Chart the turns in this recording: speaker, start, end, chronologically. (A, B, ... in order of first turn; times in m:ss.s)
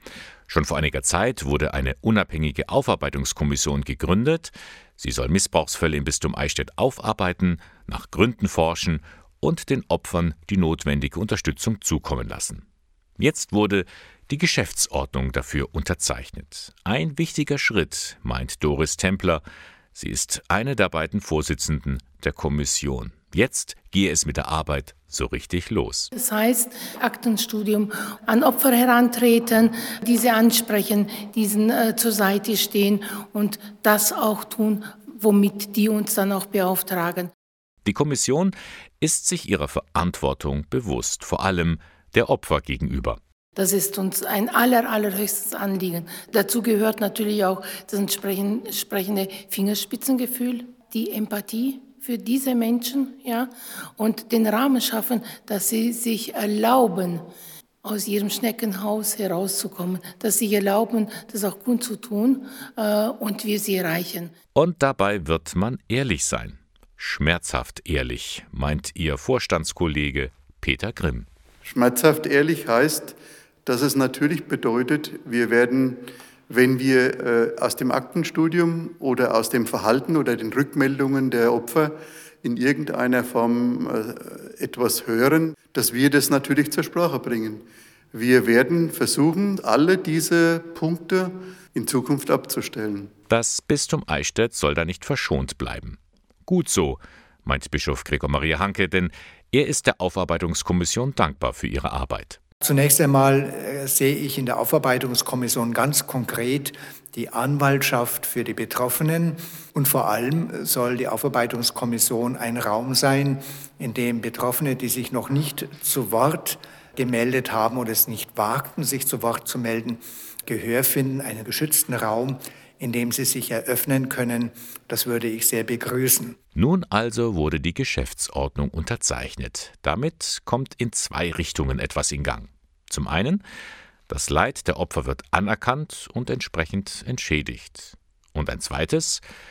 0:00.5-0:12.6 A
0:13.2-0:19.4 A
0:19.9-0:26.1 A
0:26.1-0:37.3 B
0:37.8-0:43.2 A
0:43.6-0:57.3 B
0:57.8-1:04.3 B
1:04.6-1:11.3 A
1:11.6-1:33.1 C
1:33.3-1:42.4 A
1:42.6-2:06.4 D
2:06.6-2:13.4 A
2:14.1-2:19.2 A